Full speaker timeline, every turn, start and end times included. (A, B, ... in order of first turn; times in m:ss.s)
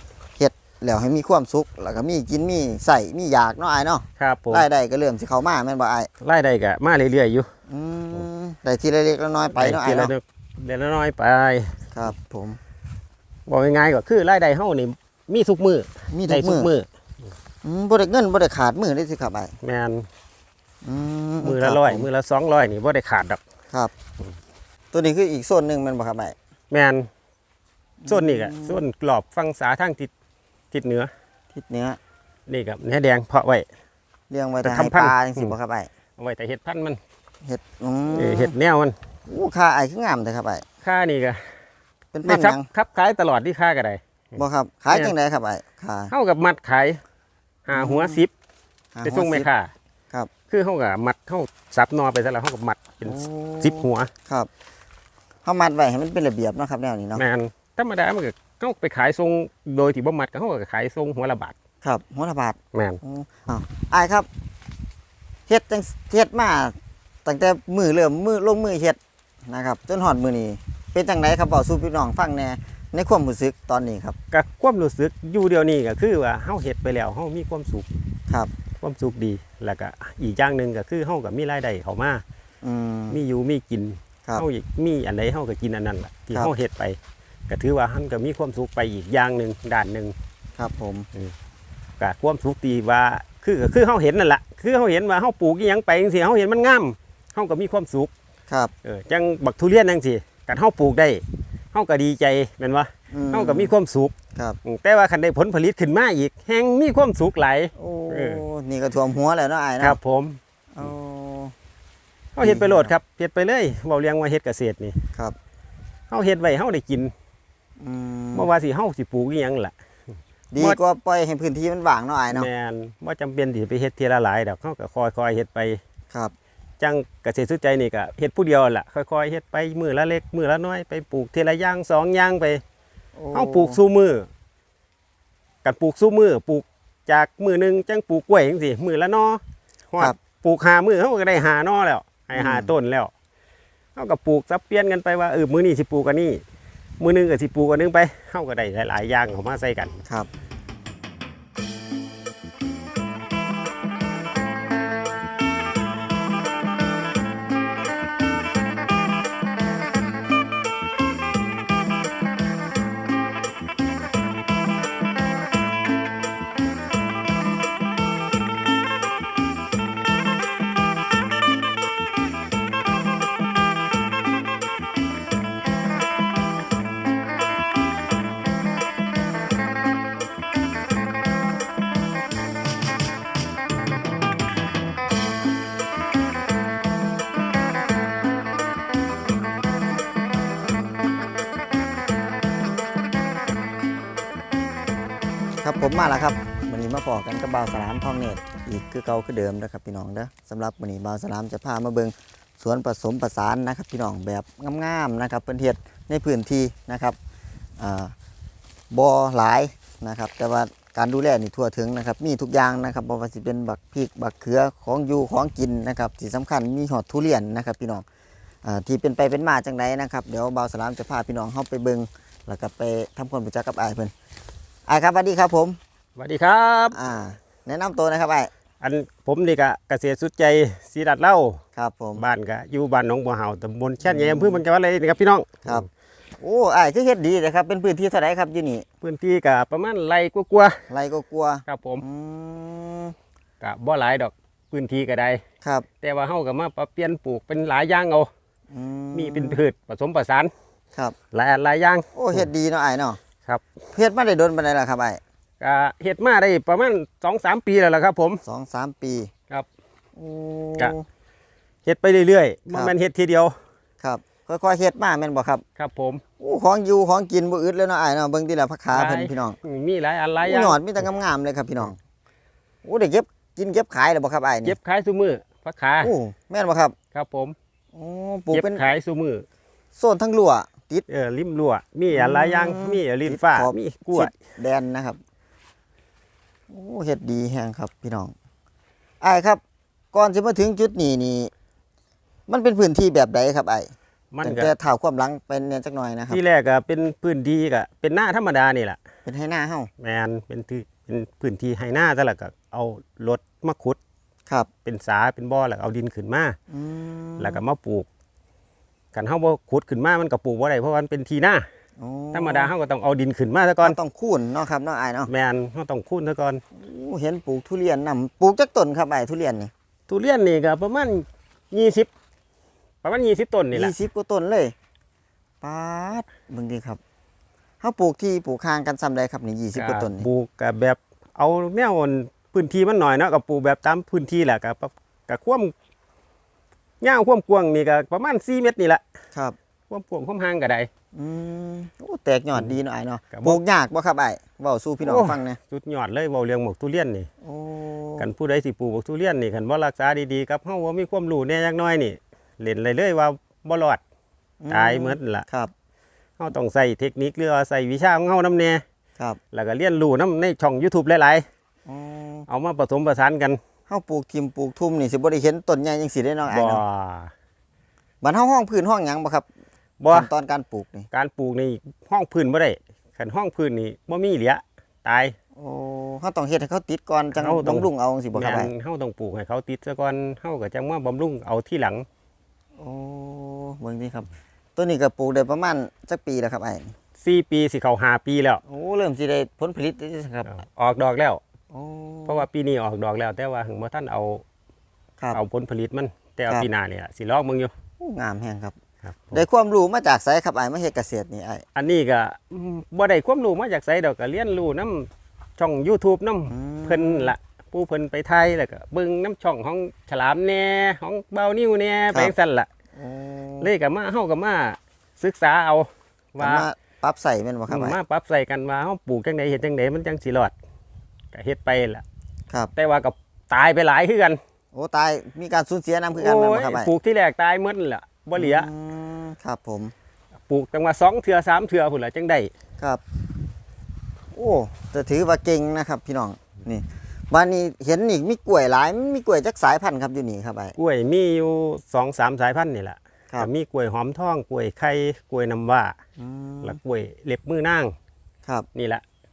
0:00.4-0:06.1 A
0:04.2-0:04.6 B
0:06.2-0:07.5 B
0:07.7-0:10.1 A
0:09.6-0:11.8 B
0:11.9-0:12.6 A
0:13.5-0:16.9 B
0:16.1-0:16.7 A
0:17.6-0:19.5 A
0:19.6-0:20.1 B
0:20.8-0:22.0 A
0:21.4-0:23.4 B
0:24.9-0:26.4 A
0:26.7-0:27.1 B
0:28.0-0:28.8 A
0:28.1-0:30.1 B
0:30.7-0:31.1 B
0:31.5-0:32.0 A
0:32.5-0:33.7 B
0:34.3-0:35.9 A
0:34.6-0:35.6 B
0:36.2-0:37.0 B
0:37.5-0:38.5 A
0:38.2-0:39.0 B
0:39.3-0:40.6 A
0:40.8-0:41.6 B
0:42.1-0:42.7 A
0:42.2-0:44.0 B
0:44.4-0:46.1 A
0:46.1-0:47.0 B
0:47.7-0:48.3 B
0:47.7-0:48.2 A
0:49.0-0:49.5 A
0:49.0-0:49.7 B
0:50.5-0:54.1 B
0:53.0-0:54.5 A
0:55.4-0:57.2 A
0:57.2-1:01.6 B
1:01.8-1:04.3 A
1:02.7-1:03.0 B
1:05.5-1:14.2 A
1:14.3-1:17.9 B
1:18.8-1:22.2 B
1:22.6-1:23.2 A
1:23.1-1:27.0 B
1:27.5-1:30.1 B
1:30.6-1:31.1 A
1:32.0-1:38.1 B
1:38.8-1:44.1 B
1:43.1-1:43.7 A
1:44.6-1:48.4 B
1:47.8-1:50.0 A
1:49.8-1:50.4 B
1:50.7-1:51.5 A
1:52.3-1:55.0 B
1:52.4-1:52.9 A
1:56.1-1:57.1 B
1:57.8-1:58.5 A
1:58.3-1:59.7 B
2:00.5-2:02.5 A
2:02.3-2:05.8 B
2:06.8-2:12.6 B
2:13.2-2:13.8 A
2:13.3-2:14.3 B
2:15.6-2:23.1 B
2:22.3-2:22.7 A
2:23.9-2:26.4 B
2:27.0-2:30.0 B
3:15.6-3:27.2 A
3:27.8-3:28.1 A
3:28.9-3:38.0 A
3:38.6-3:44.1 A
3:44.9-3:45.8 A
3:46.2-3:47.0 B
3:46.9-3:48.5 A
3:48.8-3:51.6 B
3:51.8-3:52.2 A
3:52.1-3:55.7 B
3:54.0-3:54.6 A
3:56.4-3:58.8 A
3:59.0-4:00.8 B
4:00.9-4:03.1 A
4:01.7-4:02.0 B
4:03.6-4:05.4 B
4:05.6-4:05.9 A
4:06.0-4:08.3 B
4:08.7-4:09.6 A
4:09.1-4:10.5 B
4:11.3-4:12.5 B
4:12.1-4:13.2 A
4:13.9-4:15.2 A
4:15.6-4:18.4 B
4:18.4-4:19.3 A
4:20.2-4:21.1 A
4:21.8-4:23.6 B
4:24.0-4:25.6 A
4:25.8-4:26.2 B
4:26.4-4:29.6 A
4:28.9-4:30.8 B
4:30.4-4:32.0 A
4:32.8-4:34.8 A
4:34.6-4:36.1 B
4:36.0-4:36.9 A
4:37.1-4:37.6 B
4:37.9-4:38.8 A
4:38.5-4:39.4 B
4:40.0-4:41.1 A
4:41.1-4:44.3 B
4:42.1-4:45.2 A
4:46.7-4:48.3 A
4:49.2-4:49.6 A
4:50.1-4:51.5 A
4:52.5-4:56.4 A
4:54.3-4:54.7 B
4:56.3-4:59.0 B
4:59.2-4:59.9 A
5:00.0-5:04.0 B
5:04.8-5:06.6 B
5:06.7-5:07.6 A
5:07.4-5:08.1 B
5:09.1-5:11.6 B
5:12.0-5:12.7 A
5:12.3-5:14.0 B
5:13.8-5:15.3 A
5:15.3-5:16.6 B
5:16.7-5:19.7 A
5:20.1-5:22.1 B
5:23.0-5:23.9 B
5:23.7-5:24.7 A
5:25.6-5:27.0 A
5:27.8-5:30.3 A
5:29.8-5:35.7 B
5:37.0-5:39.0 B
5:39.9-5:40.9 B
5:41.1-5:45.6 A
5:43.3-5:43.6 B
5:45.0-5:47.3 B
5:47.4-5:48.3 A
5:48.2-5:54.0 B
5:54.6-5:55.7 A
5:54.7-5:55.4 B
5:56.4-5:58.8 B
5:59.5-6:01.4 B
6:01.9-6:02.5 A
6:02.5-6:03.6 B
6:03.9-6:06.8 A
6:06.5-6:07.3 B
6:08.2-6:09.5 A
6:10.0-6:10.3 B
6:10.1-6:11.1 A
6:11.1-6:15.4 B
6:15.6-6:18.7 A
6:17.3-6:22.1 B
6:22.8-6:26.9 A
6:27.2-6:28.6 B
6:28.7-6:30.5 A
6:30.5-6:31.4 B
6:31.7-6:32.4 A
6:32.3-6:34.4 B
6:35.3-6:37.7 B
6:38.0-6:38.8 A
6:39.0-6:39.4 B
6:39.3-6:41.6 A
6:41.8-6:52.7 B
6:46.5-6:47.3 A
6:53.0-6:53.7 A
6:53.6-6:56.6 B
6:56.4-6:58.0 A
6:57.7-7:00.5 B
7:01.3-7:02.0 B
7:02.8-7:04.4 B
7:04.7-7:06.9 A
7:06.1-7:08.7 B
7:08.3-7:09.9 A
7:10.5-7:12.5 B
7:14.3-7:20.8 A
7:20.8-7:26.0 B
7:26.2-7:26.8 A
7:26.6-7:27.9 B
7:28.8-7:29.0 B